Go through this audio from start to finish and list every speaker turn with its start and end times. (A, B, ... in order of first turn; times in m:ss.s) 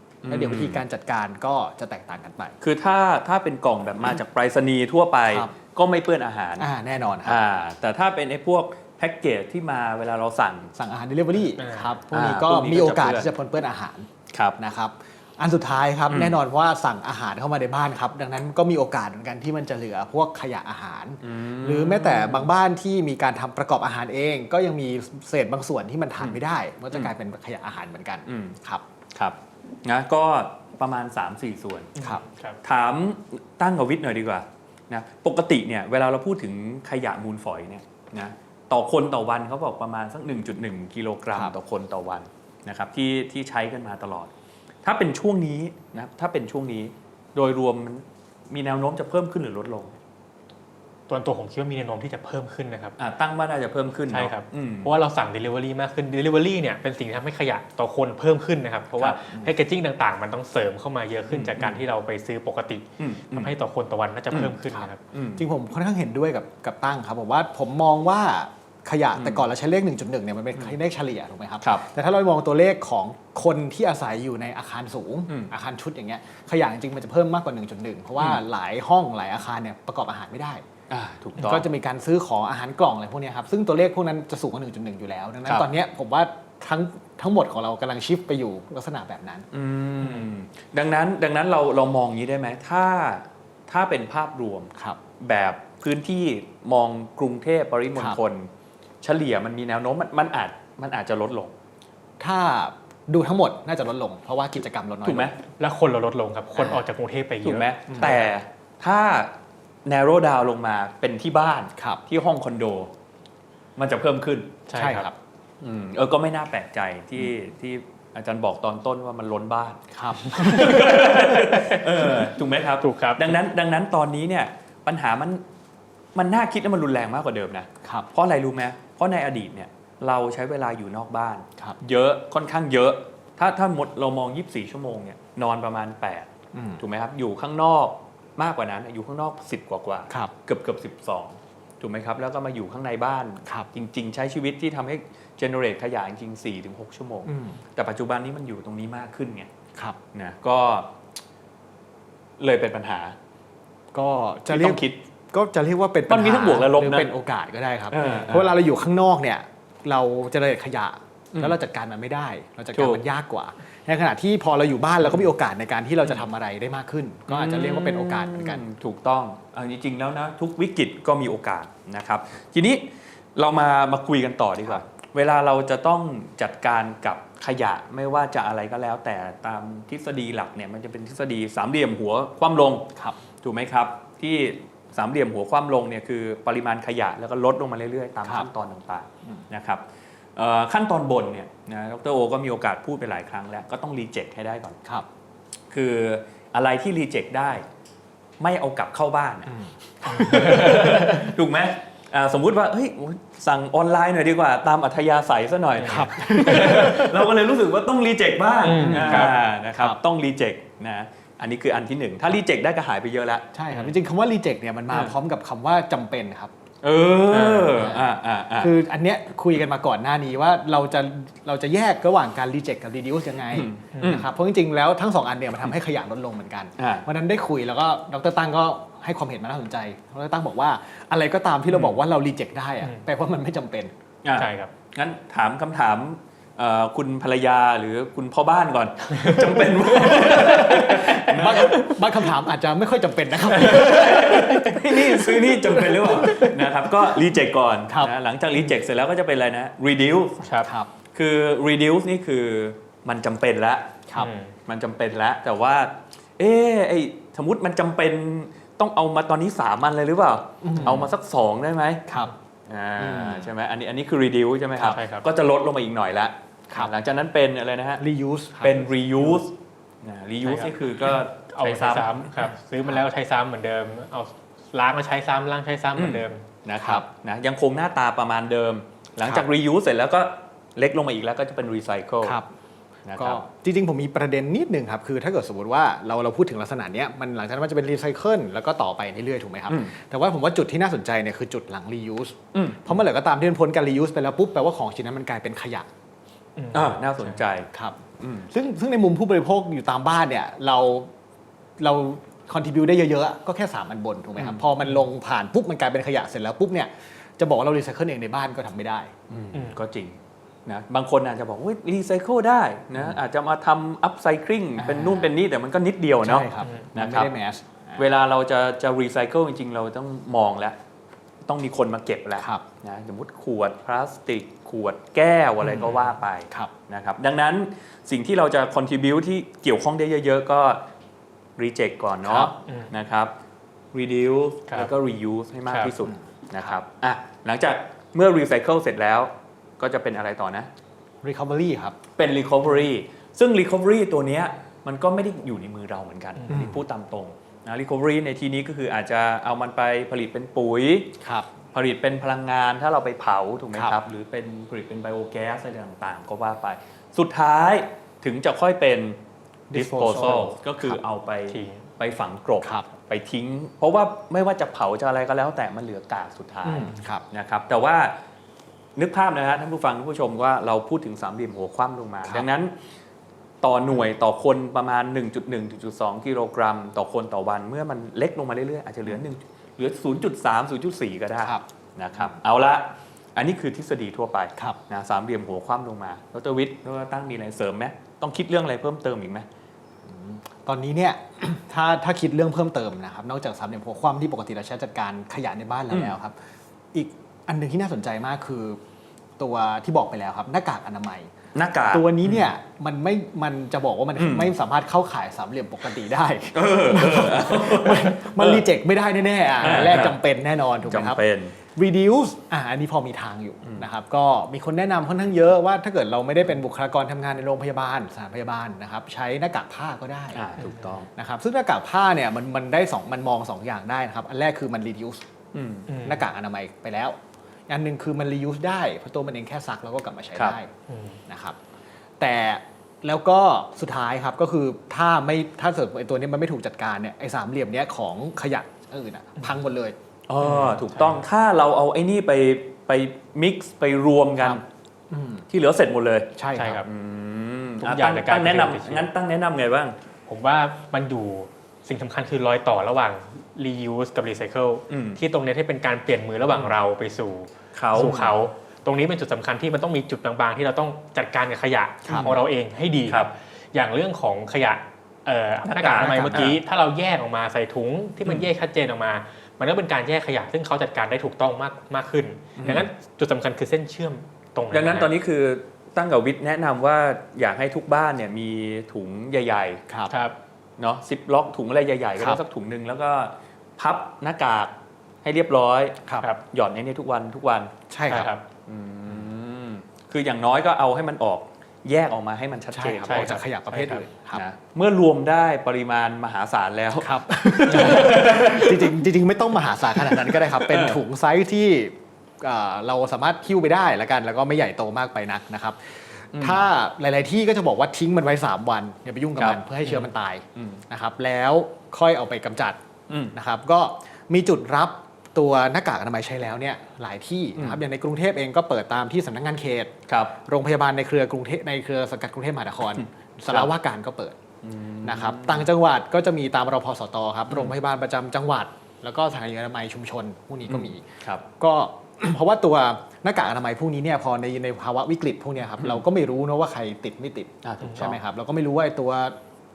0:00.2-0:00.8 A
0:00.3-0:02.6 B
0:02.6-0:06.7 A
0:06.6-0:07.4 B
0:07.2-0:10.7 A
0:10.8-0:28.8 B
0:11.6-0:11.9 C
0:12.1-0:13.3 A
0:14.3-0:14.6 A
0:16.1-0:16.4 A
0:21.2-0:22.5 A
0:28.3-0:28.6 A
0:29.1-0:31.9 A
0:32.0-0:32.6 C
0:32.6-0:44.3 A
0:44.8-0:50.0 A
0:51.1-0:53.0 C
0:53.0-0:54.9 A
0:54.1-1:05.0 C
1:01.3-1:01.8 A
1:03.0-1:03.5 A
1:04.7-1:20.6 B
1:05.1-1:05.4 A
1:09.2-1:09.4 A
1:20.9-1:21.6 A
1:21.4-1:29.5 B
1:29.5-1:38.5 A
1:39.0-1:41.5 A
1:42.2-1:45.3 B
1:45.0-1:45.4 A
1:45.6-1:48.2 C
1:46.5-1:46.8 B
1:47.4-1:49.3 A
1:47.9-1:48.2 B
1:49.8-1:52.9 A
1:53.8-1:54.6 A
1:54.7-1:55.1 C
1:54.8-1:55.2 B
1:55.6-2:05.4 A
1:59.9-2:01.8 B
2:00.5-2:01.0 C
2:02.8-2:03.3 C
2:06.1-2:29.5 A
2:16.5-2:16.8 B
2:27.2-2:27.6 B
2:30.1-2:30.9 A
2:32.4-2:33.2 A
2:33.9-2:48.6 B
2:34.5-2:35.0 A
2:36.1-2:37.1 A
2:37.9-2:38.6 A
2:42.7-2:43.0 A
2:47.3-2:52.8 A
2:53.4-3:02.9 A
3:03.4-3:09.8 A
3:10.4-3:14.8 A
3:15.7-3:17.6 A
3:18.4-3:33.5 A
3:19.5-3:21.3 B
3:20.2-3:21.0 C
3:25.8-3:26.9 C
3:25.8-3:27.3 B
3:28.6-3:29.4 C
3:28.7-3:30.0 B
3:33.5-3:36.5 B
3:36.8-3:38.7 A
3:37.3-3:38.1 B
3:38.6-3:53.9 B
3:43.5-3:44.2 A
3:43.9-3:44.2 C
3:46.8-3:47.0 A
3:54.2-4:01.9 A
3:54.4-3:54.7 C
3:59.2-4:01.9 C
3:59.8-4:06.6 B
4:03.5-4:10.4 A
4:03.7-4:04.1 C
4:07.9-4:08.7 B
4:10.4-4:10.7 C
4:10.6-4:10.9 B
4:11.1-4:14.0 A
4:14.2-4:14.5 C
4:14.7-4:22.1 A
4:20.6-4:21.1 B
4:22.1-4:22.3 B
4:22.7-4:28.0 A
4:23.0-4:23.5 B
4:24.8-4:25.2 C
4:28.0-4:29.4 B
4:28.6-4:32.4 A
4:30.4-4:36.4 C
4:36.0-4:42.4 A
4:43.0-4:43.4 A
4:43.2-4:55.9 B
4:49.7-4:49.9 A
4:52.5-4:53.0 A
4:56.6-4:57.4 C
4:56.7-4:58.5 A
4:57.7-5:01.1 B
5:01.8-5:09.1 B
5:09.3-5:17.3 A
5:14.8-5:15.3 B
5:16.2-5:18.0 B
5:16.6-5:16.9 C
5:18.0-5:20.8 A
5:21.4-5:30.8 A
5:25.6-5:26.7 B
5:31.6-5:33.3 A
5:32.2-5:32.5 B
5:32.6-5:32.9 C
5:33.9-5:40.7 A
5:36.0-5:36.8 B
5:41.2-5:42.0 B
5:42.2-5:51.1 A
5:46.5-5:46.8 B
5:51.2-5:51.5 B
5:51.7-5:59.2 A
5:59.7-6:00.6 B
5:59.7-6:08.2 A
6:01.5-6:01.9 C
6:06.6-6:07.2 B
6:09.0-6:12.8 A
6:13.6-6:29.5 A
6:30.0-6:36.4 B
6:35.9-6:36.1 A
6:36.9-6:38.8 B
6:39.4-6:41.3 B
6:41.5-6:42.5 A
6:41.9-7:05.2 B
6:44.2-6:44.5 A
6:46.5-6:48.6 A
6:49.6-6:50.2 A
6:50.8-6:51.6 A
7:00.3-7:01.1 A
7:05.5-7:05.9 A
7:05.9-7:06.3 C
7:06.0-7:07.2 B
7:07.7-7:10.7 B
7:10.9-7:11.2 C
7:11.3-7:11.6 B
7:12.2-7:20.0 B
7:20.3-7:24.6 A
7:20.5-7:21.2 C
7:24.4-7:25.4 B
7:25.5-7:30.0 A
7:26.4-7:26.8 B
7:26.5-7:26.9 C
7:27.8-7:29.1 C
7:30.3-7:55.1 C
7:34.9-7:35.2 A
7:37.7-7:38.2 A
7:38.0-7:38.4 B
7:42.0-7:42.4 B
7:42.1-7:42.4 A
7:45.6-7:46.6 A
7:45.9-7:46.6 B
7:52.6-7:52.9 A
7:54.7-7:59.8 A
8:00.1-8:00.3 C
8:00.8-8:07.7 A
8:07.9-8:08.3 B
8:08.1-8:08.4 C
8:08.6-8:13.4 A
8:12.7-8:14.4 B
8:13.0-8:14.0 C
8:14.3-8:19.0 A
8:17.0-8:32.8 B
8:19.9-8:21.0 A
8:26.3-8:26.6 A
8:29.4-8:30.0 A
8:30.6-8:30.8 A
8:33.1-8:33.3 A
8:33.3-8:39.9 B
8:37.6-8:37.8 A
8:40.1-8:40.4 A
8:40.4-8:44.4 B
8:44.6-8:45.7 A
8:45.0-8:51.0 B
8:50.7-8:51.4 A
8:51.6-8:59.4 B
8:57.6-8:58.2 A